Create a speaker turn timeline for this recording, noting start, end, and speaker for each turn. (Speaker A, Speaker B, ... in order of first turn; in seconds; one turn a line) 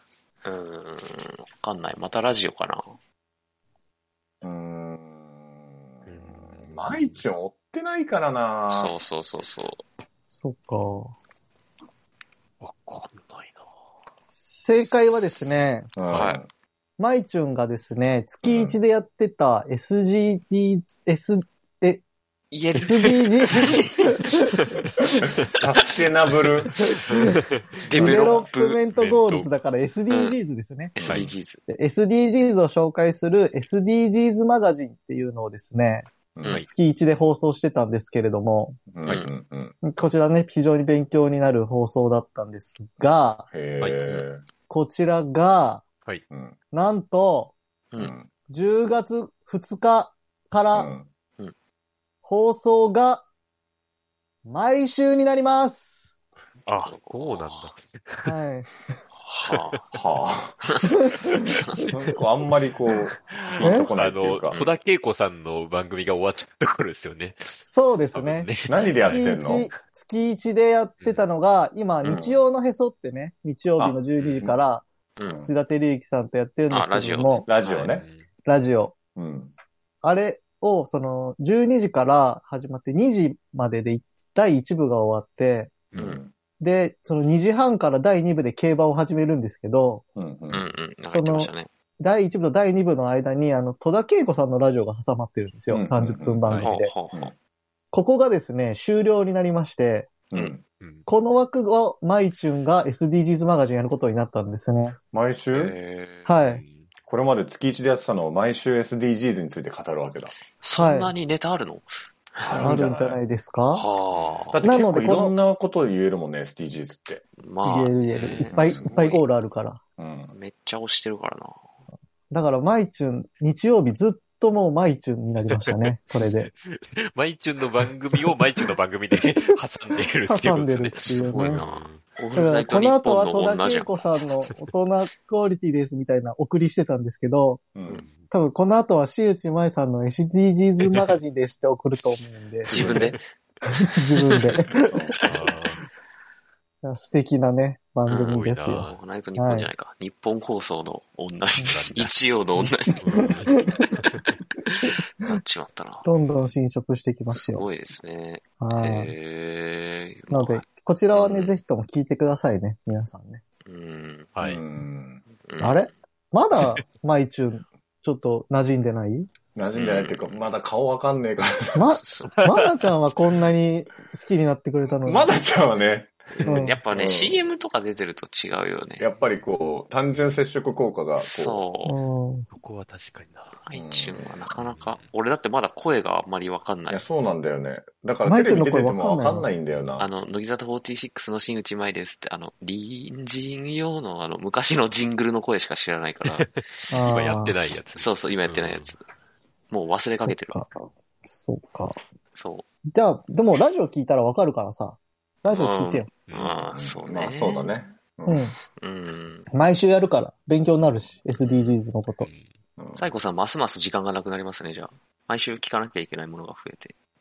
Speaker A: 0.4-2.9
Speaker B: 4.4-8.9
Speaker C: 6.1-7.2
Speaker A: 8.7-9.8
Speaker D: 10.3-11.1
Speaker C: 12.6-13.6
Speaker D: 14.3-15.9
Speaker B: 16.0-16.5
Speaker C: 16.1-16.4
Speaker A: 16.1-16.4
Speaker D: 17.0-22.0
Speaker B: 18.4-18.8
Speaker A: 22.5-24.1
Speaker D: 22.7-24.6
Speaker B: 25.5-26.8
Speaker D: 26.8-27.4
Speaker C: 27.2-27.7
Speaker A: 27.8-28.8
Speaker B: 27.9-28.5
Speaker D: 27.9-30.9
Speaker C: 29.0-29.5
Speaker A: 30.1-30.4
Speaker A: 31.0-31.6
Speaker B: 31.0-31.3
Speaker D: 31.7-36.1
Speaker B: 36.4-36.7
Speaker D: 36.7-38.8
Speaker B: 38.9-39.8
Speaker D: 39.8-43.5
Speaker B: 43.5-44.4
Speaker D: 44.7-45.9
Speaker B: 46.3-46.6
Speaker D: 46.7-47.5
Speaker B: 48.0-48.3
Speaker D: 48.5-50.9
Speaker B: 50.7-51.1
Speaker D: 52.2-53.2
Speaker D: 54.5-56.0
Speaker C: 56.7-58.3
Speaker A: 56.8-57.7
Speaker D: 58.2-58.7
Speaker A: 59.2-59.8
Speaker C: 59.5-59.8
Speaker B: 59.9-60.7
Speaker D: 61.0-61.5
Speaker A: 61.4-61.9
Speaker B: 61.9-64.6
Speaker C: 63.3-67.5
Speaker D: 63.6-63.9
Speaker D: 67.7-68.5
Speaker C: 68.2-69.7
Speaker B: 68.7-69.7
Speaker D: 69.1-74.8
Speaker C: 71.0-71.3
Speaker B: 72.0-72.4
Speaker B: 73.8-74.6
Speaker A: 75.2-75.5
Speaker D: 75.4-77.5
Speaker A: 76.7-78.0
Speaker B: 77.5-78.1
Speaker C: 77.8-78.2
Speaker D: 78.5-78.9
Speaker B: 79.2-79.5
Speaker D: 80.0-85.7
Speaker B: 85.9-86.3
Speaker A: 86.0-86.2
Speaker D: 86.6-90.0
Speaker B: 90.2-90.7
Speaker A: 90.5-91.7
Speaker D: 91.1-96.9
Speaker B: 95.7-96.4
Speaker C: 96.5-96.7
Speaker A: 96.6-97.3
Speaker D: 97.9-100.1
Speaker B: 100.3-100.6
Speaker C: 100.8-101.1
Speaker D: 101.1-105.0
Speaker B: 105.1-105.8
Speaker A: 105.5-106.3
Speaker D: 106.3-106.6
Speaker C: 106.4-106.9
Speaker B: 107.1-110.3
Speaker A: 110.6-112.8
Speaker D: 110.8-111.1
Speaker B: 112.4-113.2
Speaker D: 112.5-113.8
Speaker A: 113.7-114.6
Speaker C: 114.1-114.4
Speaker B: 114.5-117.2
Speaker D: 114.6-115.4
Speaker A: 117.4-119.2
Speaker D: 117.6-119.8
Speaker B: 118.5-119.0
Speaker B: 120.0-120.3
Speaker A: 120.3-121.5
Speaker D: 122.3-126.5
Speaker C: 125.5-132.0
Speaker D: 130.3-131.6
Speaker A: 131.1-134.1
Speaker D: 132.3-137.6
Speaker B: 137.8-138.1
Speaker D: 138.3-143.0
Speaker A: 142.7-143.2
Speaker B: 142.7-143.1
Speaker C: 142.7-143.2
Speaker D: 143.7-144.9
Speaker B: 144.8-145.2
Speaker C: 145.2-145.8
Speaker D: 146.8-149.7
Speaker A: 148.1-153.3
Speaker C: 148.3-149.0
Speaker C: 151.6-152.1
Speaker C: 152.9-154.4
Speaker D: 153.1-153.8
Speaker A: 154.8-156.1
Speaker D: 156.0-157.7
Speaker A: 157.3-161.6
Speaker D: 158.6-159.1
Speaker D: 160.3-163.4
Speaker A: 163.7-164.3
Speaker C: 164.4-164.6
Speaker B: 164.4-165.2
Speaker A: 165.4-165.9
Speaker D: 165.6-169.3
Speaker B: 169.6-172.0
Speaker A: 169.8-170.5
Speaker D: 171.8-175.3
Speaker A: 172.0-172.3
Speaker C: 172.3-172.7
Speaker B: 175.0-177.4
Speaker A: 176.4-179.1
Speaker D: 176.4-176.8
Speaker B: 179.0-181.6
Speaker A: 181.2-182.0
Speaker D: 181.8-182.5
Speaker C: 182.5-183.6
Speaker A: 183.6-187.0
Speaker B: 183.7-184.2
Speaker C: 184.7-185.1
Speaker B: 186.9-190.1
Speaker D: 188.3-189.5
Speaker A: 190.0-196.5
Speaker C: 196.3-198.9
Speaker D: 196.9-197.6
Speaker A: 198.0-199.0
Speaker A: 199.7-200.6
Speaker D: 200.2-202.0
Speaker A: 202.3-202.7
Speaker D: 202.9-206.1
Speaker A: 205.5-207.7
Speaker C: 206.3-206.6
Speaker B: 206.7-208.6
Speaker D: 208.3-208.6
Speaker A: 208.8-209.5
Speaker D: 209.5-212.3
Speaker A: 211.4-211.8
Speaker C: 212.2-212.5
Speaker B: 212.8-213.1
Speaker A: 213.0-216.9